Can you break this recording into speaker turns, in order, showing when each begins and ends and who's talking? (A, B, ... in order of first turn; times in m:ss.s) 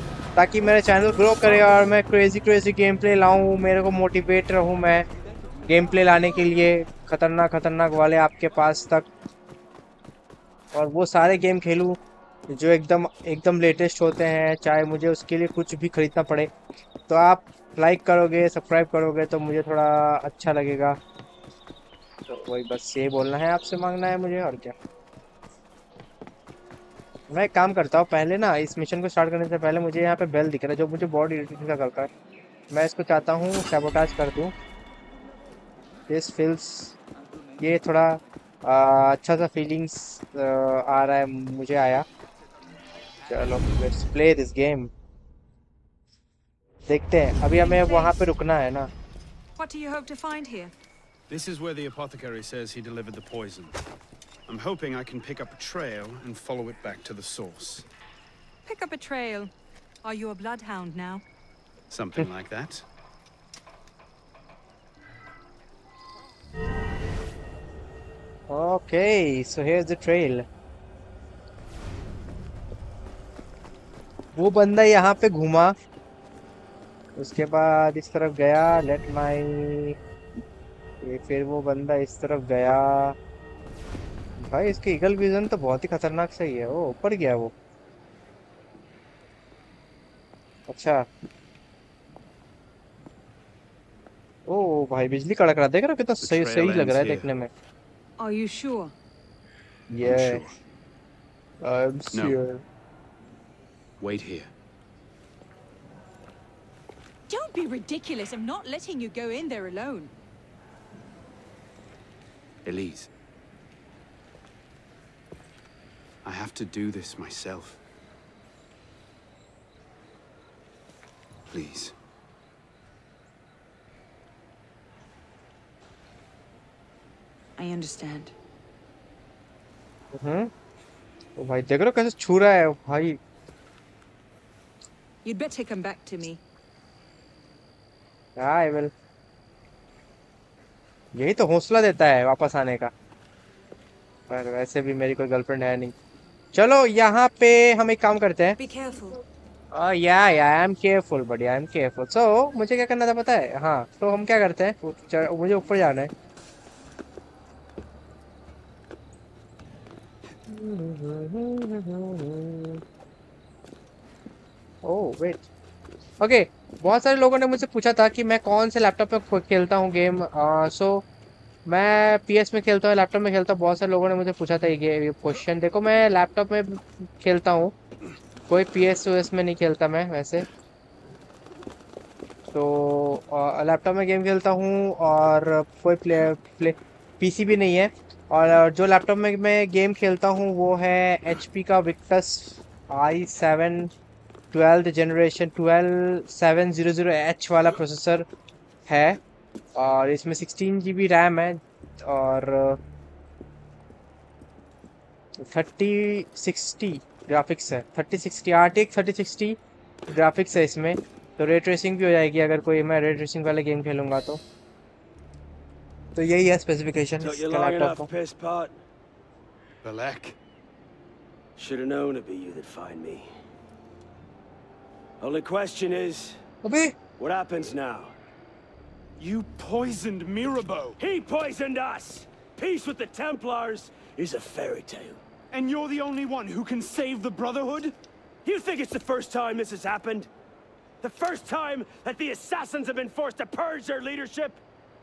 0:00.4-0:05.1 A
0:05.7-0:09.1 A
0:10.7-0:12.0 A
0:12.5-0:16.5 A
0:17.1-0:21.0 A
0:22.3-0:24.8 A
0:27.3-0:32.1 A
0:32.7-0:34.5 A
0:36.1-0:37.0 A
0:37.6-0:42.0 A
0:43.3-0:44.9 A
0:46.9-0:48.9 A
0:47.5-0:48.3 B
0:49.6-0:50.7 B
0:51.3-0:53.8 C
0:54.5-0:57.8 C
0:54.5-0:55.8 D
0:58.6-0:59.5 B
1:00.0-1:01.2 B
1:01.9-1:02.8 C
1:08.5-1:10.5 A
1:14.4-1:15.8 A
1:17.2-1:20.0 A
1:21.0-1:23.2 A
1:24.5-1:27.5 A
1:30.7-1:31.1 A
1:34.5-1:37.5 A
1:36.2-1:37.3 C
1:38.2-1:38.9 B
1:39.9-1:40.4 A
1:40.1-1:40.5 C
1:41.6-1:42.6 A
1:42.1-1:42.4 C
1:44.0-1:44.5 C
1:47.3-1:50.1 B
1:52.6-1:53.1 C
1:56.2-1:57.8 C
2:01.5-2:01.9 C
2:07.6-2:08.3 B
2:10.1-2:10.5 A
2:11.4-2:13.2 A
2:15.2-2:16.4 B
2:18.4-2:18.9 A
2:21.2-2:22.9 A
2:24.3-2:25.9 A
2:26.5-2:28.6 A
2:28.6-2:29.2 B
2:29.7-2:36.1 A
2:40.5-2:42.8 A
2:44.8-2:45.4 A
2:46.2-2:51.0 A
2:51.7-2:57.7 A
2:58.5-3:00.5 A
3:02.5-3:13.9 A
3:14.5-3:18.3 A
3:18.9-3:19.2 A
3:19.8-3:22.8 A
3:25.4-3:29.6 A
3:30.1-3:34.4 A
3:36.2-3:38.1 A
3:37.2-3:38.8 E
3:39.8-3:40.4 C
3:41.6-3:43.4 E
3:45.2-3:46.4 E
3:46.6-3:47.0 A
3:47.2-3:48.2 E
3:49.2-3:51.0 D
3:51.0-3:55.2 E
3:55.5-3:58.0 D
3:58.4-4:00.3 E
4:01.0-4:02.1 E
4:02.7-4:04.5 E